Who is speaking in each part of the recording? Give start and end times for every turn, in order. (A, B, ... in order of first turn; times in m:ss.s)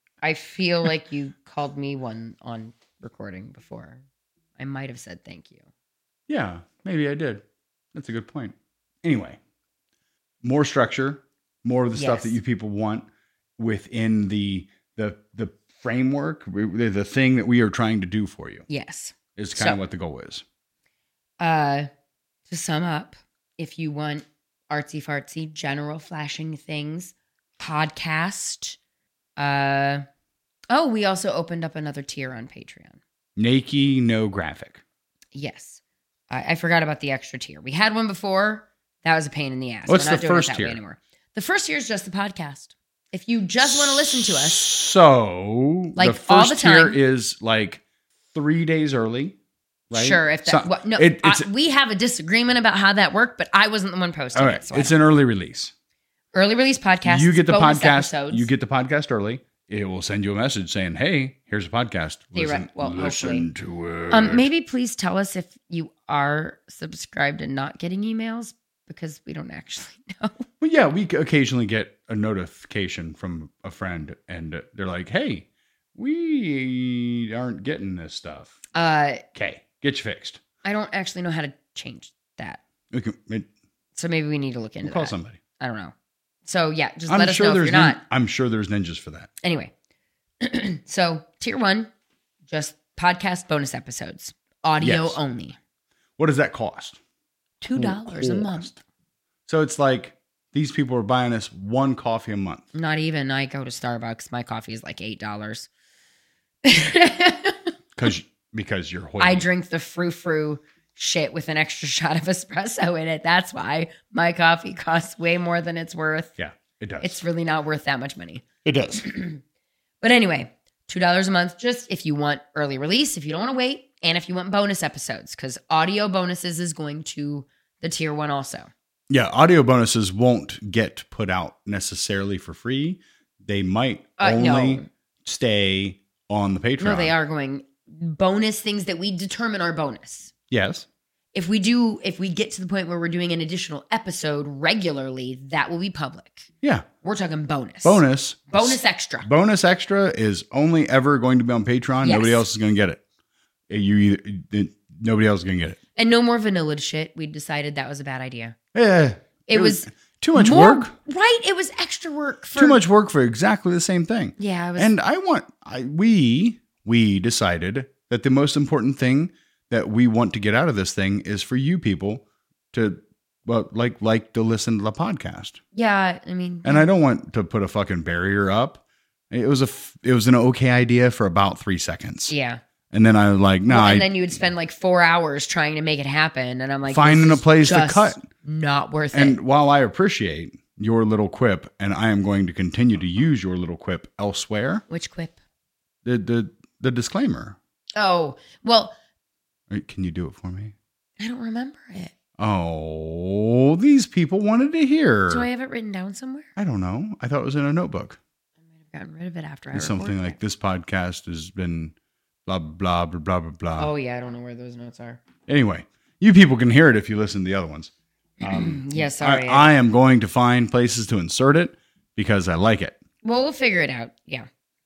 0:00.2-0:04.0 A
0:04.6-0:05.6 A
0:06.3-0:09.4 B
0:10.4-0:13.1 B
0:11.9-0:12.4 A
0:13.6-0:18.6 B
0:18.7-0:19.8 A
0:19.4-0:20.4 B
0:21.4-0:21.9 A
0:22.5-0:28.8 A
0:29.4-0:30.1 A
0:30.7-0:33.0 A
0:33.4-0:34.8 B
0:35.3-0:44.6 A
0:39.9-0:40.8 B
0:43.6-0:49.4 B
0:46.0-0:47.0 A
0:49.9-0:51.5 B
0:49.9-0:54.9 A
0:54.4-0:55.7 B
0:56.3-0:58.5 A
0:57.0-1:04.5 B
1:02.4-1:03.5 A
1:04.1-1:10.5 A
1:10.6-1:18.6 B
1:18.7-1:19.2 A
1:19.4-1:20.4 B
1:20.6-1:22.6 A
1:22.9-1:23.5 B
1:24.0-1:25.9 A
1:24.8-1:25.4 B
1:26.5-1:28.0 A
1:27.1-1:29.3 B
1:29.4-1:29.7 A
1:30.4-1:31.9 A
1:32.5-1:35.6 A
1:34.8-1:35.2 B
1:36.2-1:37.0 B
1:37.6-1:38.7 A
1:37.8-1:38.8 B
1:39.5-1:42.7 B
1:42.7-1:45.7 A
1:46.6-1:47.7 A
1:48.0-1:49.5 B
1:49.2-1:56.3 A
1:56.4-1:57.2 B
1:57.0-1:58.4 A
1:58.6-1:59.1 B
1:59.0-1:59.4 A
2:00.0-2:08.7 A
2:09.1-2:17.1 B
2:14.2-2:14.9 A
2:16.8-2:20.3 A
2:20.5-2:20.9 B
2:21.3-2:26.5 A
2:27.0-2:29.3 A
2:27.8-2:33.0 B
2:32.0-2:32.4 A
2:33.7-2:35.8 B
2:36.0-2:38.6 A
2:38.7-2:40.9 B
2:39.5-2:42.8 A
2:42.6-2:55.6 B
2:44.4-2:44.9 A
2:55.7-2:56.9 A
2:56.6-3:02.3 B
3:02.3-3:02.6 A
3:02.9-3:04.4 B
3:03.7-3:09.4 A
3:06.9-3:08.3 B
3:09.1-3:14.8 B
3:14.9-3:15.4 A
3:16.0-3:17.6 B
3:18.0-3:18.9 A
3:19.7-3:20.8 B
3:21.2-3:22.1 A
3:22.4-3:25.5 B
3:25.3-3:26.5 A
3:26.6-3:28.2 B
3:28.9-3:30.4 A
3:29.7-3:31.9 B
3:32.5-3:33.9 B
3:33.8-3:35.2 A
3:35.5-3:43.0 B
3:38.4-3:39.7 A
3:43.2-3:44.5 A